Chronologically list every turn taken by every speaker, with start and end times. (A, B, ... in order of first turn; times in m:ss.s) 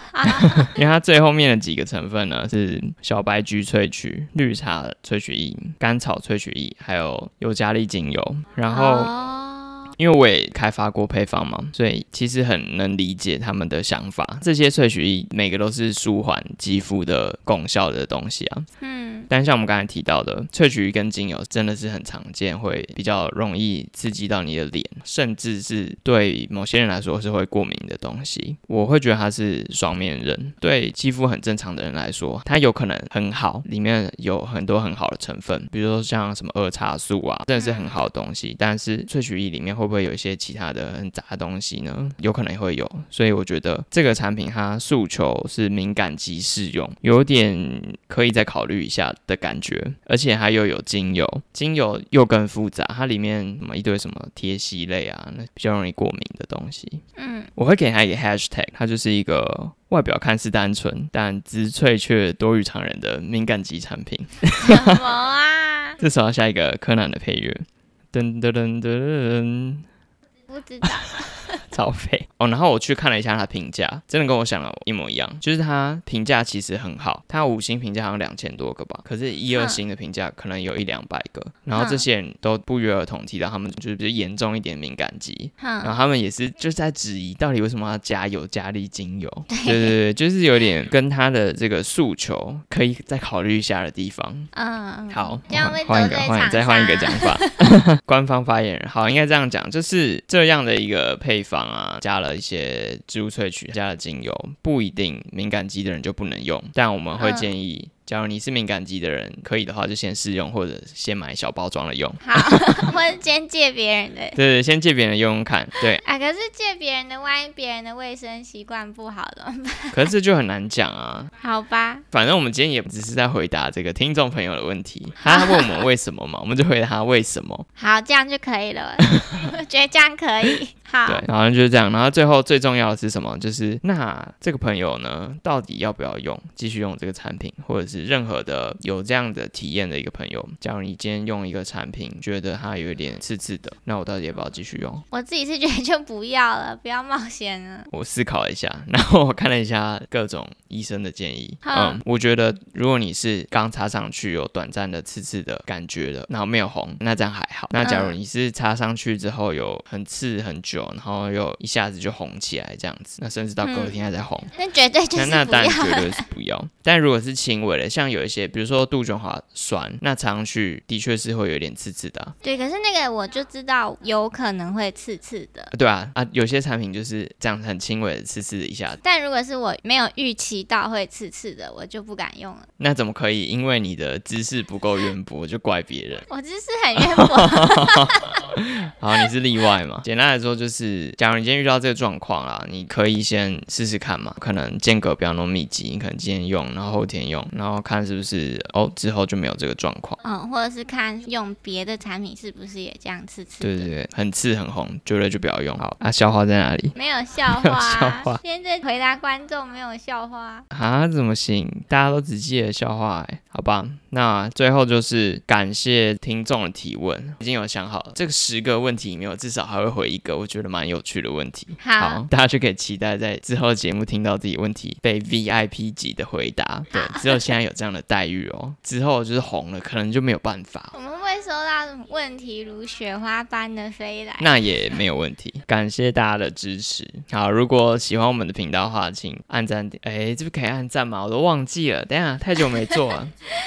0:00.1-0:00.7 A
0:00.2-0:09.1 B
0:08.7-0:09.9 A
0:09.9-0:18.7 B
0:18.8-0:19.3 A
0:19.3-0:57.0 B
0:37.6-0:38.0 A
0:57.2-0:57.5 A
0:57.6-1:05.0 B
1:04.6-1:06.0 A
1:06.0-1:09.8 B
1:10.5-1:11.6 A
1:11.7-1:34.5 B
1:19.5-1:19.8 A
1:21.7-1:22.0 A
1:25.6-1:25.9 A
1:29.5-1:30.0 A
1:34.5-1:37.6 A
1:35.1-1:52.9 B
1:47.2-1:47.5 A
1:52.2-1:54.4 A
1:54.3-1:56.0 B
1:56.0-2:00.1 A
1:59.9-2:01.3 B
2:01.4-2:02.0 A
2:02.1-2:07.6 B
2:05.2-2:05.8 A
2:07.8-2:11.2 A
2:09.0-2:09.4 B
2:11.1-2:25.0 B
2:25.1-2:27.9 A
2:27.9-2:44.5 B
2:31.6-2:32.0 A
2:37.8-2:38.2 A
2:43.6-2:44.0 A
2:44.5-2:46.2 A
2:45.1-2:52.3 B
2:52.4-2:55.7 A
2:55.7-2:59.0 B
2:59.0-3:02.7 A
3:02.8-3:06.3 B
3:06.3-3:08.3 A
3:07.0-3:20.2 B
3:20.2-3:23.9 A
3:23.6-3:26.9 B
3:26.9-3:30.6 A
3:27.6-3:28.4 B
3:30.7-3:50.9 B
3:41.8-3:42.3 A
3:46.9-3:47.4 A
3:50.9-3:54.6 A
3:54.4-4:03.3 B